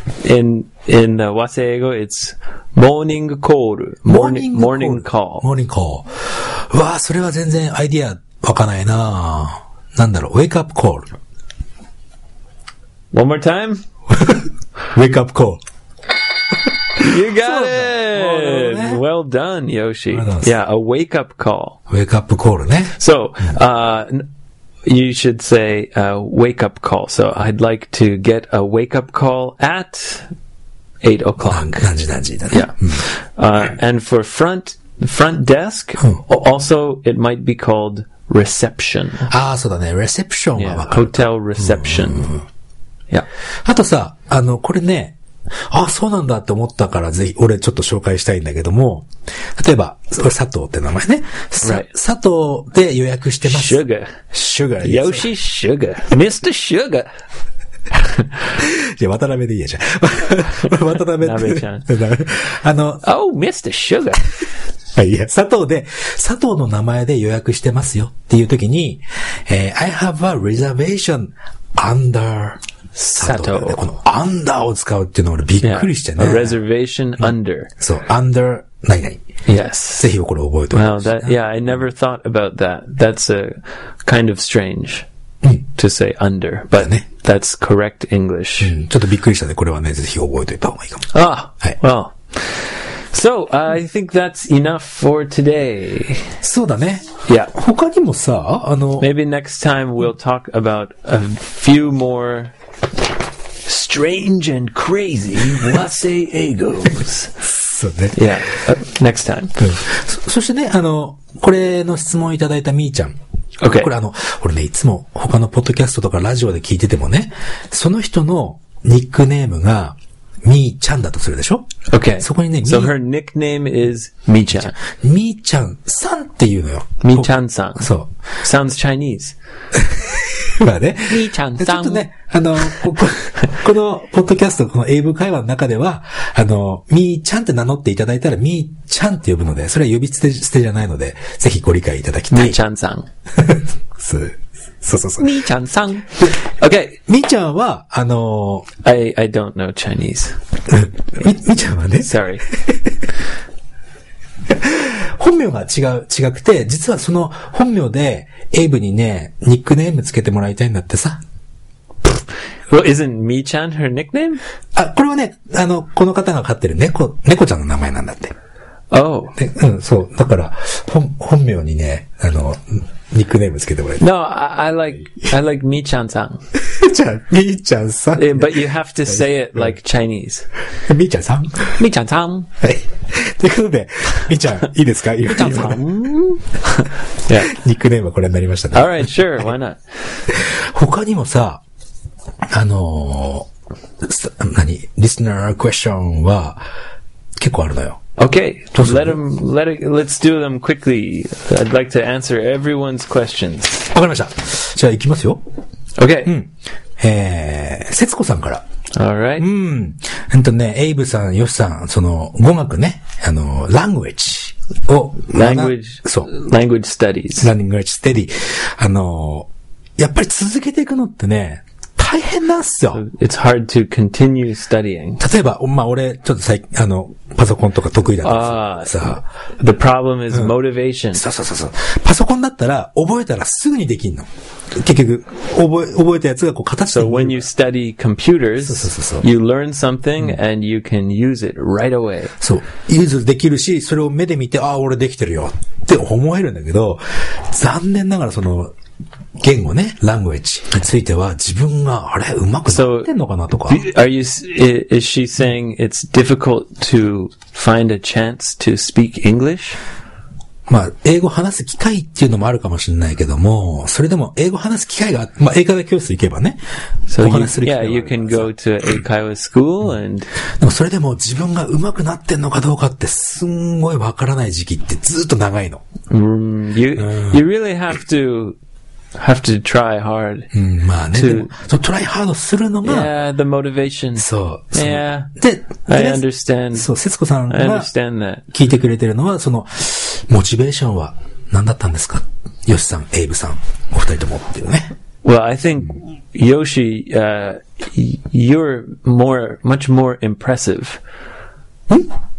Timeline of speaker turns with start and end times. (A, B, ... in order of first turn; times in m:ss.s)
0:00.2-0:05.5 A
0:04.1-0:11.1 B
0:13.1-0:13.8 A
0:14.1-0:15.6 B
0:17.0-0:19.0 B
0:17.0-0:21.8 A
0:20.1-0:20.5 B
0:21.9-0:23.0 B
0:23.0-0:24.3 A
0:24.8-0:30.3 A
0:31.0-0:31.9 A
0:31.4-0:33.0 B
0:32.5-0:39.3 A
0:39.3-0:42.4 B
0:40.6-0:42.4 A
0:43.6-0:45.2 B
0:45.7-0:55.3 B
0:51.6-0:51.9 A
0:53.4-0:54.2 A
0:54.8-0:57.1 A
0:58.0-0:58.3 A
0:58.6-1:03.0 B
1:01.2-1:01.9 A
1:03.0-1:04.3 A
1:05.0-1:12.6 B
1:13.0-1:13.8 A
1:13.1-1:16.6 B
1:15.6-1:17.7 A
1:17.2-1:19.2 B
1:19.5-1:20.1 A
1:20.0-1:21.4 B
1:20.7-1:25.1 A
1:25.8-1:28.8 A
1:26.8-1:27.0 B
1:28.6-1:31.1 B
1:31.1-1:36.4 A
1:36.4-1:39.1 B
1:37.3-1:37.5 A
1:39.0-1:42.5 A
1:43.6-1:47.3 A
1:47.4-1:48.3 B
1:48.1-1:49.6 A
1:49.6-1:53.2 B
1:53.6-1:53.9 A
1:53.7-2:01.7 B
2:01.9-2:04.8 A
2:02.2-2:03.0 B
2:04.7-2:08.1 B
2:07.0-2:09.4 A
2:09.8-2:22.6 B
2:11.1-2:12.1 A
2:22.3-2:23.1 A
2:23.4-2:25.3 B
2:25.2-2:27.0 A
2:27.1-2:28.7 B
2:28.8-2:30.4 A
2:30.7-2:33.0 B
2:32.0-2:32.4 A
2:34.5-2:41.2 B
2:42.7-2:44.4 A
2:44.8-2:48.4 B
2:48.9-2:49.4 A
2:49.4-2:54.0 B
2:54.0-2:56.4 A
2:56.6-2:59.7 B
2:58.2-3:00.5 A
3:00.8-3:01.8 B
3:01.8-3:02.5 A
3:02.6-3:05.9 B
3:05.3-3:07.5 A
3:07.4-3:09.2 B
3:08.7-3:10.2 A
3:10.3-3:11.6 B
3:12.5-3:13.5 B
3:14.0-3:16.6 B
3:17.4-3:18.0 B
3:18.2-3:23.9 A
3:18.8-3:19.2 B
3:23.9-3:25.4 B
3:26.0-3:26.3 A
3:26.2-3:28.6 B
3:28.9-3:29.5 A
3:29.4-3:36.3 B
3:35.3-3:37.5 A
3:37.4-3:43.0 B
3:42.9-3:45.2 A
3:45.2-3:49.2 B
3:48.2-3:51.2 A
3:51.1-3:57.5 B
3:56.9-4:02.4 A
3:58.6-3:59.3 B
4:02.4-4:08.7 B
4:09.4-4:13.8 B
4:12.7-4:13.1 A
4:13.7-4:19.8 A
4:20.7-4:26.6 B
4:27.1-4:30.3 A
4:27.2-4:28.5 B
4:30.6-4:35.8 B
4:36.1-4:38.6 A
4:37.0-4:37.4 B
4:39.2-4:40.5 A
4:40.5-4:43.1 B
4:41.1-4:41.5 A
4:42.8-4:45.3 A
4:44.2-4:47.9 B
4:45.9-4:46.9 A
4:47.5-4:48.4 A
4:48.5-4:54.9 B
4:55.2-5:01.0 A